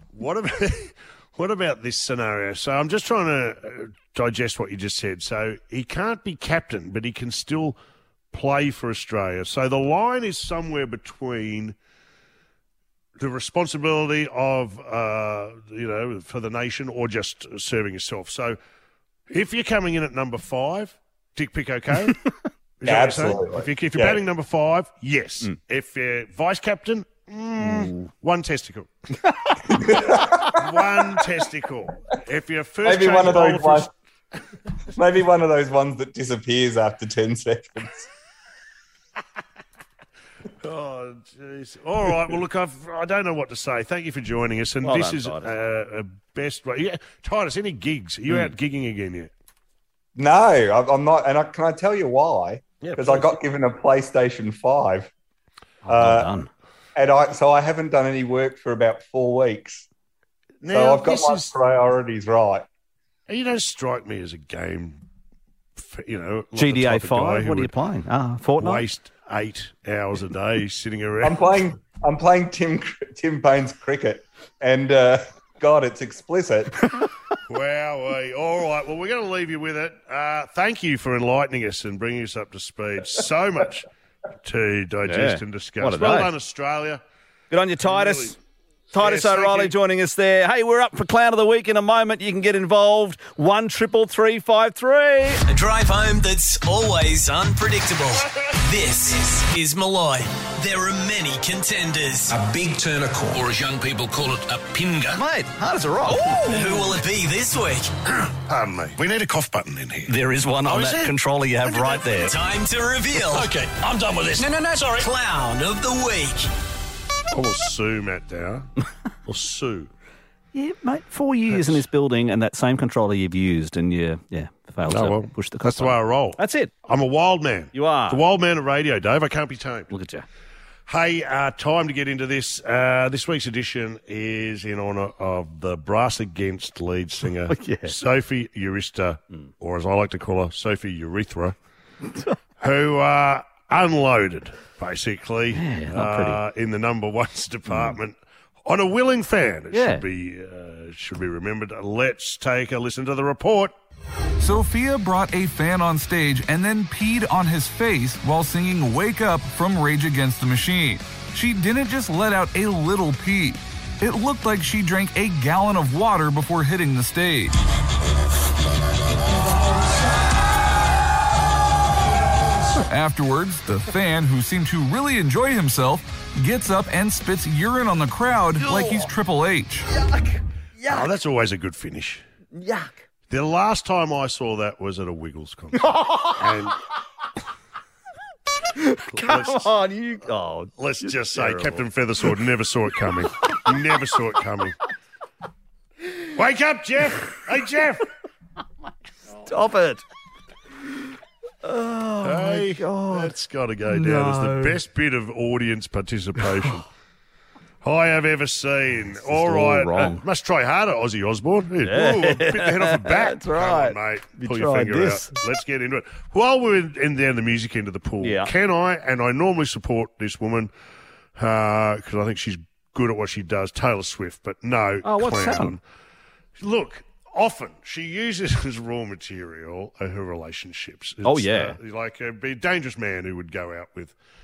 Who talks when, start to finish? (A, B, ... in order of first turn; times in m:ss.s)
0:00.2-0:07.8 A
0:08.3-0:11.8 A
0:13.2-0:18.6 A
0:19.3-0:22.2 A
0:22.8-0:28.9 A
0:22.8-0:24.2 B
0:27.6-0:27.9 C
0:29.8-0:30.5 B
0:30.4-0:33.9 A
0:32.8-0:33.9 B
0:35.0-0:38.1 B
0:40.6-0:49.3 A
0:44.8-0:45.6 C
0:50.2-0:55.1 B
0:52.8-0:53.3 A
0:55.8-0:56.5 C
0:55.9-0:56.3 B
0:57.0-0:59.9 B
1:00.6-1:01.5 A
1:00.7-1:02.7 B
1:03.3-1:05.0 A
1:05.8-1:07.7 A
1:06.6-1:08.8 C
1:08.6-1:11.4 A
1:11.2-1:16.7 B
1:17.5-1:23.9 A
1:24.4-1:27.0 A
1:25.0-1:26.3 C
1:27.5-1:28.4 C
1:27.8-1:28.4 A
1:28.9-1:29.7 A
1:28.9-1:35.4 C
1:35.5-1:42.4 D
1:42.4-1:45.2 E
1:45.1-1:46.9 C
1:46.5-1:47.9 D
1:48.5-1:52.1 A
1:50.1-1:52.4 C
1:52.1-1:53.5 D
1:55.0-1:56.5 D
1:57.3-1:58.7 A
1:59.3-1:59.9 A
2:00.5-2:06.7 C
2:01.5-2:01.8 A
2:04.9-2:09.9 A
2:07.7-2:08.2 C
2:09.9-2:10.2 C
2:10.9-2:21.6 A
2:17.5-2:18.0 C
2:22.6-2:33.7 A
2:25.5-2:26.4 C
2:27.7-2:28.0 C
2:29.7-2:30.0 C
2:34.4-2:47.6 F
2:52.9-2:59.9 F
2:58.6-2:59.1 C
2:59.9-3:01.1 C
3:00.9-3:02.2 A
3:02.5-3:02.9 C
3:03.3-3:06.8 A
3:05.8-3:06.6 C
3:08.8-3:11.8 C
3:09.1-3:09.8 A
3:10.8-3:14.8 A
3:16.4-3:18.0 A
3:19.4-3:20.0 C
3:21.6-3:23.4 C
3:22.2-3:26.8 A
3:23.9-3:24.8 C
3:26.4-3:26.7 C
3:27.8-3:40.7 A
3:29.2-3:30.2 C
3:31.8-3:35.4 C
3:38.2-3:38.5 C
3:41.4-3:45.8 A
3:45.0-3:45.8 C
3:46.6-3:54.2 A
3:51.2-3:51.8 C